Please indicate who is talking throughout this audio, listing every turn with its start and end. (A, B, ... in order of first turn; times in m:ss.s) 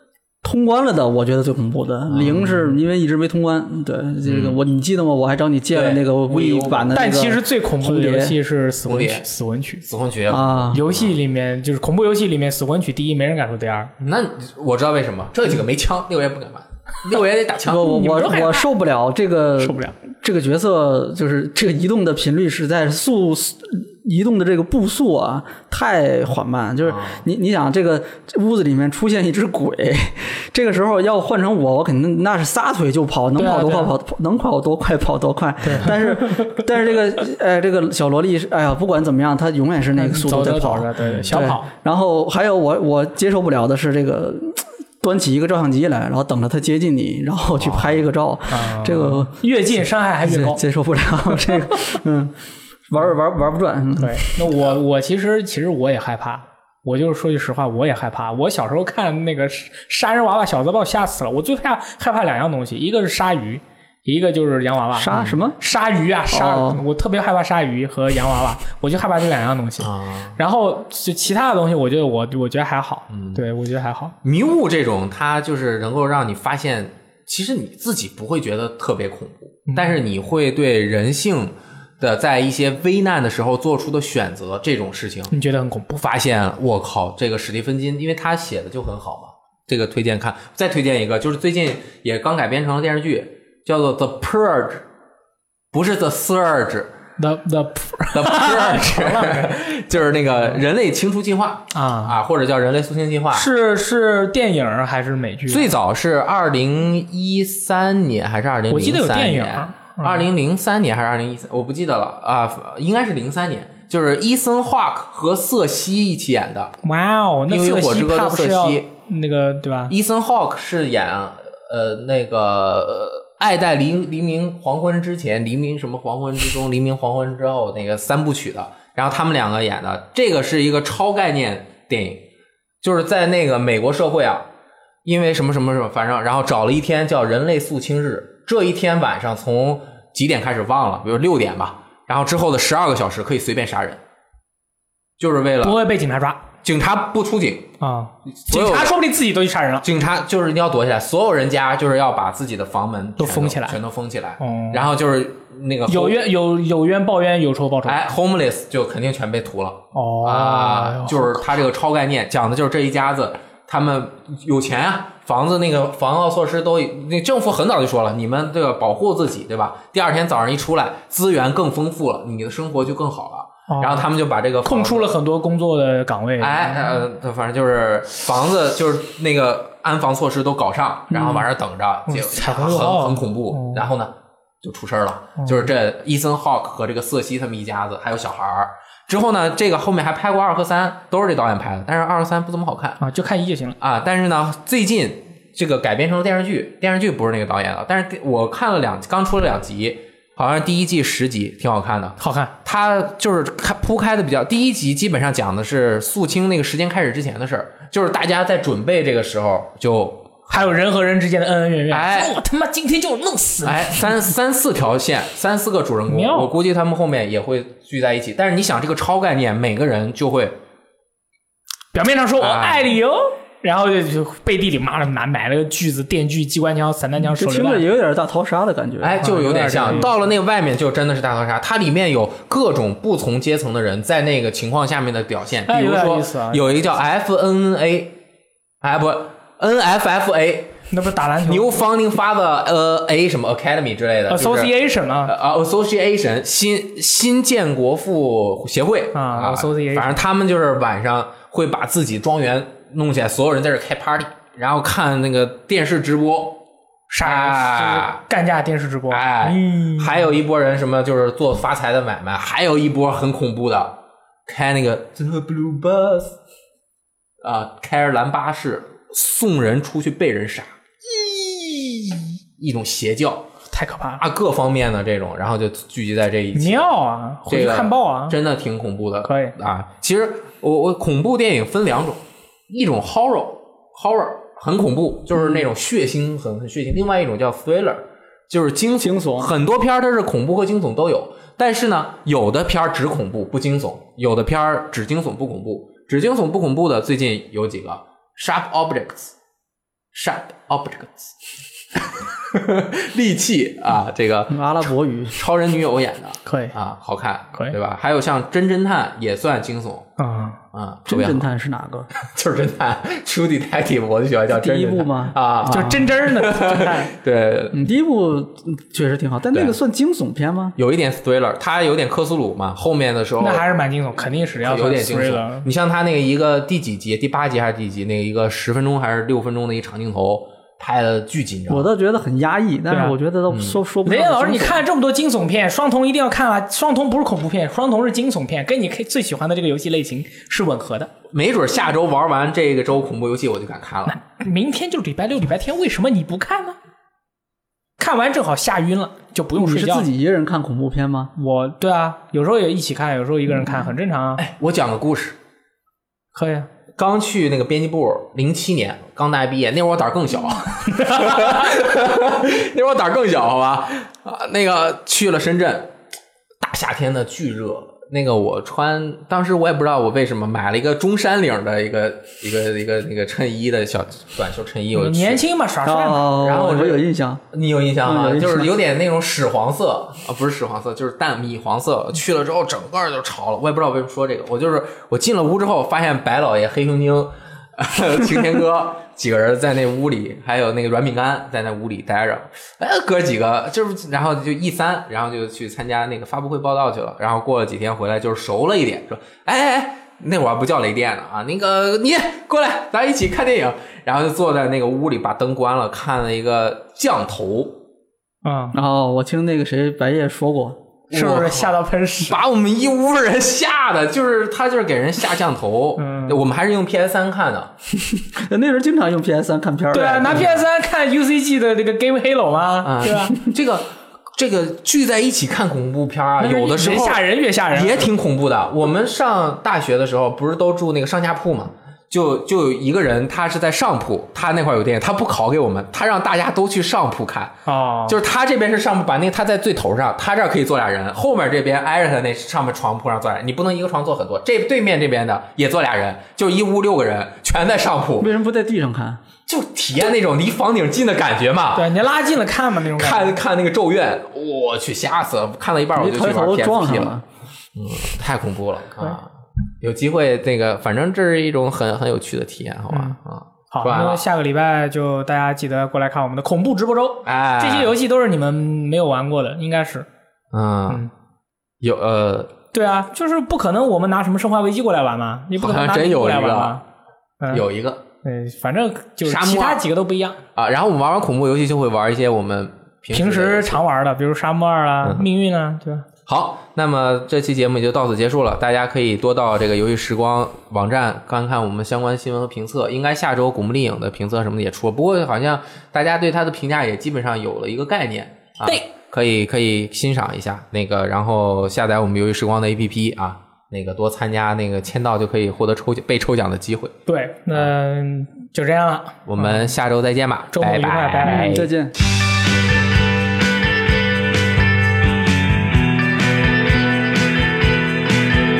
0:00.4-0:08.4 A
0:02.1-0:02.8 B
0:04.2-0:04.6 B
0:05.7-0:07.0 B
0:06.9-0:09.8 C
0:08.9-0:09.2 B
0:09.8-0:11.2 B
0:10.3-0:10.8 A
0:10.7-0:13.9 C
0:14.0-0:18.0 B
0:17.6-0:49.4 A
0:17.8-0:18.7 C
0:19.6-0:20.0 C
0:26.9-0:27.2 B
0:33.4-0:33.9 C
0:35.6-0:36.0 C
0:40.0-0:41.7 C
0:47.6-0:48.0 B
0:48.5-0:50.6 C
0:50.2-0:52.3 A
0:52.9-0:54.4 A
0:54.0-1:14.2 C
1:05.0-1:05.6 A
1:05.1-1:05.4 B
1:06.3-1:06.8 A
1:09.8-1:10.4 B
1:13.1-1:13.4 B
1:14.2-1:25.3 B
1:19.7-1:20.0 C
1:25.3-1:26.0 C
1:26.0-1:34.8 B
1:35.7-1:36.9 B
1:37.2-1:39.6 C
1:38.1-1:43.5 B
1:41.7-1:42.2 C
1:43.3-1:45.7 C
1:45.5-1:56.7 B
1:48.7-1:50.3 C
1:56.8-1:59.9 C
1:57.5-1:58.9 B
1:59.9-2:12.3 B
2:12.8-2:14.5 B
2:15.0-2:24.0 B
2:25.2-2:25.8 B
2:25.6-2:26.4 C
2:26.6-2:27.7 B
2:27.8-2:29.9 C
2:28.4-2:29.0 B
2:29.8-2:36.2 B
2:33.2-2:33.8 C
2:34.4-2:34.9 C
2:35.9-2:38.0 C
2:37.8-2:55.2 B
2:39.9-2:41.5 C
2:53.7-2:54.1 C
2:54.6-2:57.0 C
2:56.4-3:13.0 B
3:01.1-3:01.5 C
3:02.1-3:03.8 C
3:05.4-3:05.7 C
3:13.0-3:13.8 C
3:13.8-3:30.6 B
3:22.2-3:22.5 C
3:30.5-3:34.1 C
3:31.9-3:32.4 B
3:33.6-3:40.6 B
3:36.1-3:36.5 C
3:41.9-3:47.8 C
3:42.4-3:42.9 B
3:47.4-3:50.0 A
3:49.0-3:58.2 B
3:49.2-3:50.1 C
3:55.7-3:56.8 C
3:58.8-4:00.8 B
4:00.9-4:01.7 C
4:01.4-4:04.7 B
4:04.3-4:05.3 C
4:05.2-4:16.6 B
4:09.1-4:10.2 C
4:17.1-4:20.2 C
4:17.2-4:18.2 B
4:19.1-4:26.4 B
4:27.4-4:33.5 B
4:33.7-4:34.2 C
4:34.2-4:36.8 B
4:36.5-4:38.4 C
4:37.5-4:59.3 B
4:39.2-4:39.6 C
4:49.0-4:49.5 A
5:00.1-5:01.4 B
5:02.0-5:10.1 B
5:04.5-5:05.4 A
5:06.5-5:06.8 C
5:10.2-5:10.6 C
5:10.7-5:11.5 B
5:11.1-5:12.1 A
5:12.2-5:17.8 B
5:14.5-5:16.1 A
5:15.7-5:17.1 C
5:17.7-5:20.8 A
5:20.8-5:23.7 B
5:23.4-5:25.7 C
5:24.6-5:31.9 B
5:31.7-5:34.8 A
5:32.9-5:33.2 C
5:33.5-5:33.8 B
5:34.0-5:41.1 C
5:41.3-5:44.2 B
5:44.1-5:46.8 C
5:48.0-5:50.1 C
5:49.6-5:51.3 A
5:51.4-5:54.4 C
5:54.4-5:55.4 B
5:56.3-5:56.7 C
5:57.0-6:05.9 B
6:00.9-6:01.5 C
6:06.6-6:15.4 B
6:14.9-6:16.6 C
6:15.8-6:17.4 A
6:16.4-6:47.8 B
6:18.0-6:18.7 A
6:48.4-6:48.8 C
6:48.7-6:50.8 A
6:51.1-6:57.7 B
6:51.1-6:52.4 C
6:56.0-6:56.4 C
6:58.2-7:00.4 A
6:59.9-7:03.4 C
7:00.3-7:00.6 B
7:02.8-7:17.5 B
7:06.4-7:08.1 C
7:17.7-7:18.2 C
7:18.1-7:28.3 B
7:28.2-7:29.2 A
7:29.5-7:32.0 B
7:31.8-7:33.3 C
7:33.0-7:37.1 B
7:36.0-7:37.2 A
7:37.8-7:44.2 B
7:42.9-7:43.2 C
7:43.7-7:50.1 C
7:47.2-7:48.0 B
7:50.5-7:51.0 B
7:51.8-7:52.5 B
7:52.7-7:56.8 C
7:55.6-7:56.8 B
7:57.4-7:57.7 C
7:57.5-7:58.0 B
7:58.2-8:00.4 C
7:59.2-7:59.9 B
8:00.6-8:03.8 B
8:03.1-8:06.1 C
8:05.0-8:05.3 B
8:06.3-8:27.0 B
8:27.1-8:29.7 C
8:29.3-8:31.7 B
8:30.5-8:31.6 C
8:31.3-8:32.0 A